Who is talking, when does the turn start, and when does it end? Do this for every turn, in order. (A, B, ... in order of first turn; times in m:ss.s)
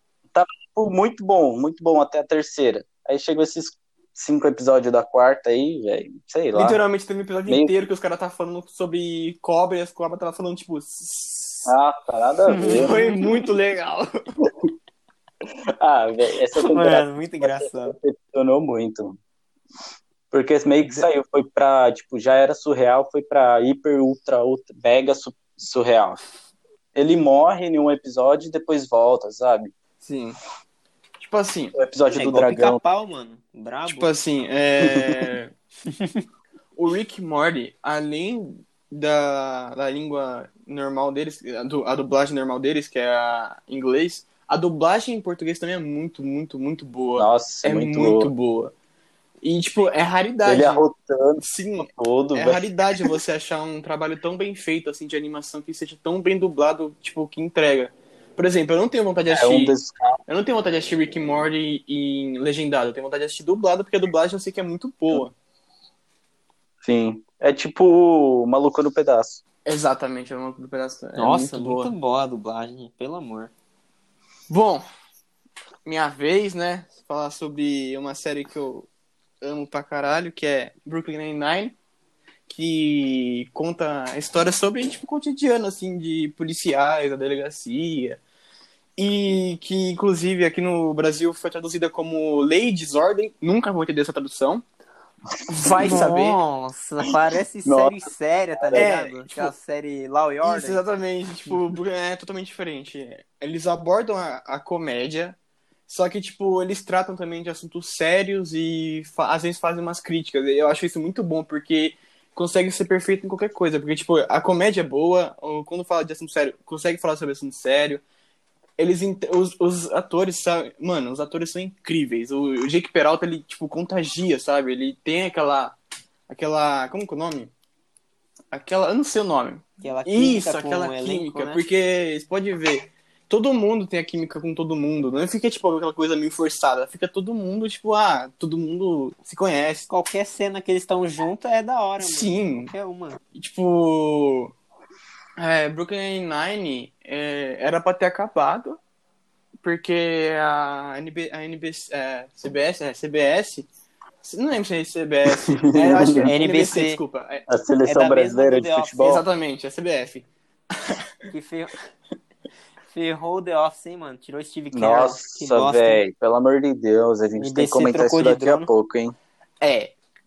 0:00.3-0:06.8 A
0:06.5-0:11.7 B
0:07.5-0:07.7 A
0:11.7-0:13.0 A
0:12.5-0:13.3 C
0:12.7-0:14.1 B
0:15.7-0:19.2 A
0:16.6-0:18.0 C
0:20.3-0:26.2 A
0:27.0-0:29.7 A
0:30.0-0:30.4 B
0:31.2-0:31.8 B
0:31.7-0:32.8 A
0:32.1-0:34.1 C
0:33.9-0:35.5 B
0:34.8-0:35.1 A
0:35.9-0:36.2 C
0:36.8-0:48.7 B
0:47.2-0:48.3 A
0:49.4-0:50.8 B
0:50.4-0:53.1 A
0:51.4-0:59.8 B
0:59.3-1:00.2 A
1:00.3-1:05.3 B
1:06.8-1:09.4 A
1:09.6-1:11.9 B
1:11.2-1:13.5 C
1:14.5-1:14.8 B
1:15.9-1:18.9 B
1:19.4-1:21.8 B
1:22.5-1:28.2 B
1:29.0-1:34.6 B
1:35.5-1:36.4 B
1:35.8-1:40.8 C
1:37.6-1:38.9 A
1:38.7-1:39.5 B
1:40.4-1:45.4 B
1:45.9-1:58.0 B
1:58.8-2:05.8 B
2:06.3-2:07.5 B
2:08.5-2:19.9 B
2:09.8-2:11.6 C
2:19.9-2:23.2 C
2:22.0-2:22.7 B
2:23.4-2:24.5 B
2:25.4-2:28.8 B
2:29.6-2:33.7 B
2:34.2-2:37.4 B
2:35.5-2:36.3 A
2:36.2-2:37.0 C
2:37.5-2:39.2 A
2:37.8-2:39.2 C
2:39.0-2:40.3 B
2:41.3-2:41.7 C
2:42.9-2:46.0 C
2:44.7-2:49.2 A
2:47.4-2:48.7 C
2:49.6-2:49.9 B